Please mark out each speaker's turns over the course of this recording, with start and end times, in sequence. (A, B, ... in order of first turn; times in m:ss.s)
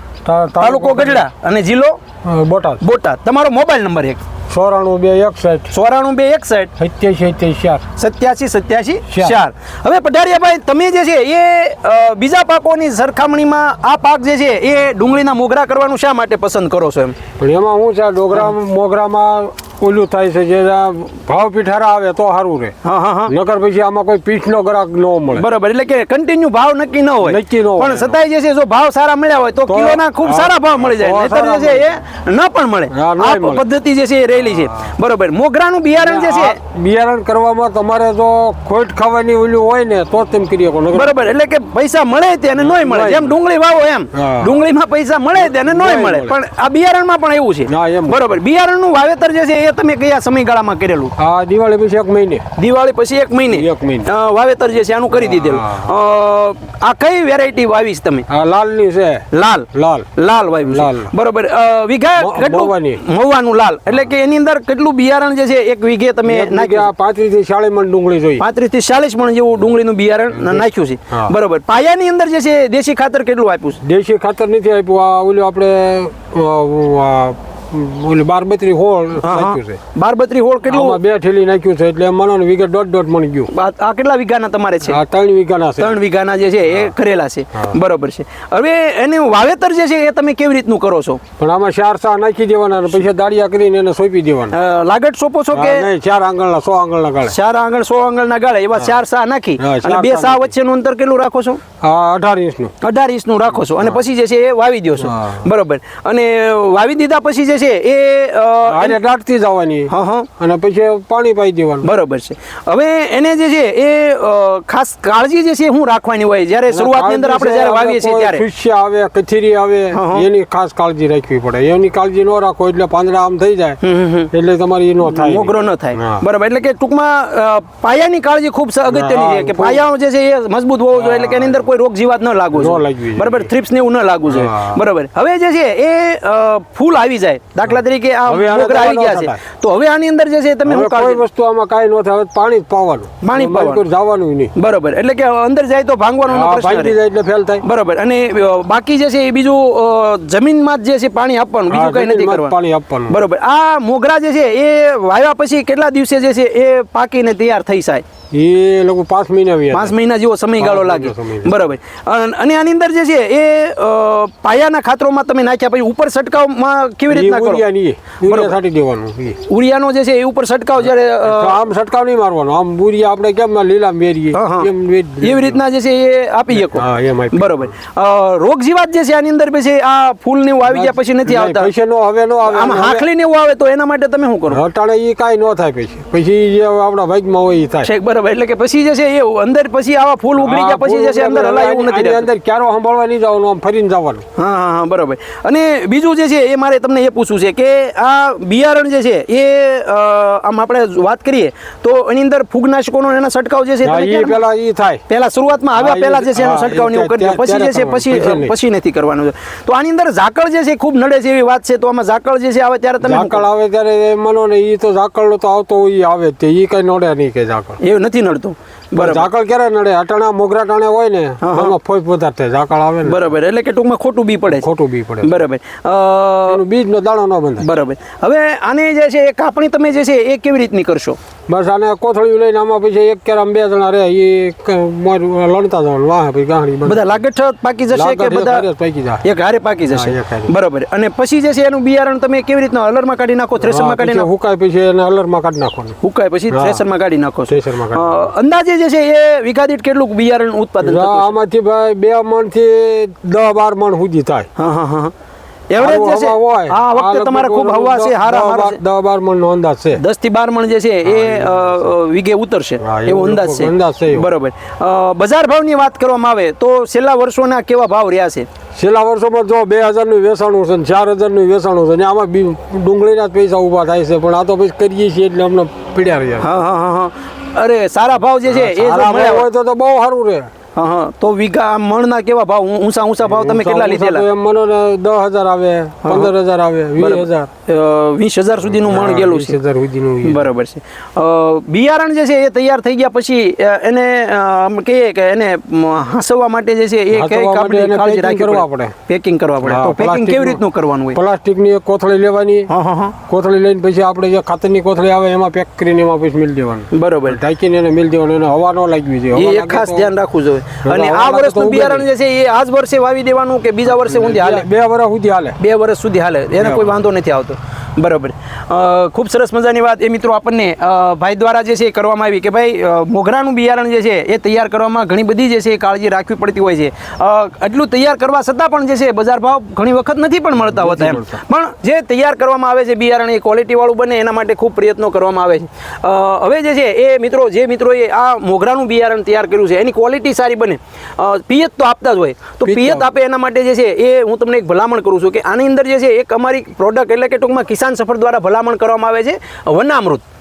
0:00.2-0:01.2 A
0:00.6-0:02.0 B
0:02.2-0:02.8 A
0:02.8-0:04.2 B
0:04.5-0:05.7 A
0:05.7-0:06.7 B
0:06.8-0:07.8 A
0:08.0-0:17.2 B
0:09.1-0:09.4 A
0:17.4-0:22.8 A
0:22.8-0:23.3 B
0:23.3-0:25.5 A
0:25.3-0:36.6 B
0:27.2-0:28.2 A
0:29.7-0:31.9 A
0:32.9-0:33.6 A
0:36.0-0:41.2 A
0:40.9-0:51.1 B
0:42.6-0:43.4 A
0:44.1-0:44.6 A
0:45.4-0:46.4 A
0:47.7-0:48.3 A
0:51.2-0:52.4 A
0:52.6-0:58.3 B
0:53.5-0:54.1 A
0:55.1-0:55.9 A
0:58.3-1:00.1 A
0:59.3-1:06.9 B
1:00.6-1:01.1 A
1:02.2-1:03.0 A
1:06.2-1:08.4 A
1:08.4-1:13.8 B
1:10.4-1:11.3 A
1:13.8-1:19.8 A
1:19.2-1:21.0 B
1:20.7-1:23.5 A
1:23.5-1:25.0 B
1:24.9-1:26.0 A
1:25.8-1:31.2 B
1:31.4-1:34.6 A
1:34.5-1:35.9 B
1:35.5-1:37.4 A
1:37.3-1:41.6 B
1:39.6-1:40.5 A
1:41.8-1:42.7 A
1:42.8-1:49.0 B
1:45.0-1:45.4 A
1:48.6-1:51.9 A
1:49.9-1:50.3 B
1:51.8-1:58.4 B
1:56.7-2:03.8 A
1:59.9-2:00.2 B
2:03.8-2:04.3 B
2:04.3-2:06.2 A
2:05.1-2:21.2 B
2:08.9-2:09.8 A
2:10.9-2:11.5 A
2:12.6-2:13.5 A
2:14.3-2:14.8 A
2:18.3-2:19.4 A
2:20.6-2:24.5 A
2:23.2-2:23.8 B
2:24.6-2:27.0 B
2:26.3-2:27.6 A
2:27.6-2:32.6 B
2:31.7-2:33.2 A
2:33.1-2:38.0 B
2:38.3-2:40.0 A
2:39.7-2:47.6 B
2:40.6-2:41.6 A
2:47.1-2:49.4 A
2:48.2-2:48.6 B
2:49.5-2:51.6 B
2:51.2-2:55.6 A
2:54.3-2:54.7 B
2:55.2-3:01.7 B
2:56.5-2:57.7 A
3:00.7-3:03.1 A
3:02.4-3:04.6 B
3:04.5-3:07.9 A
3:07.8-3:12.2 B
3:10.4-3:14.2 A
3:14.4-3:24.4 B
3:23.8-3:25.0 A
3:25.1-3:33.4 B
3:25.8-3:28.5 A
3:33.0-3:37.8 A
3:37.8-3:39.3 B
3:39.0-3:43.3 A
3:41.4-3:41.8 B
3:43.0-3:44.7 B
3:44.5-3:45.4 A
3:45.2-3:46.6 B
3:46.5-3:47.7 A
3:47.6-3:51.2 B
3:51.5-3:57.2 A
3:56.8-3:58.6 B
3:57.9-3:59.2 A
3:59.2-4:04.3 B
3:59.9-4:00.5 A
4:03.6-4:06.0 A
4:06.0-4:11.3 B
4:06.5-4:06.8 A
4:07.5-4:08.3 A
4:10.8-4:14.5 A
4:14.6-4:15.1 B
4:15.7-4:18.8 B
4:15.8-4:20.0 A
4:20.0-4:28.5 B
4:21.0-4:21.9 A
4:22.8-4:24.3 A
4:28.8-4:36.6 A
4:36.4-4:39.5 B
4:38.5-4:40.5 A
4:40.8-4:44.2 B
4:43.2-4:47.5 A
4:46.0-4:46.3 B
4:47.0-4:49.6 B
4:48.7-4:50.5 A
4:50.2-5:01.2 B
4:57.1-4:58.9 A
4:59.6-5:00.6 A
5:01.1-5:02.7 A
5:02.7-5:03.2 B
5:03.3-5:10.1 A
5:06.9-5:07.4 B
5:09.3-5:14.7 B
5:10.8-5:12.1 A
5:13.9-5:15.6 A
5:15.6-5:50.2 B
5:16.6-5:17.0 A
5:30.6-5:31.4 A
5:42.7-5:43.1 A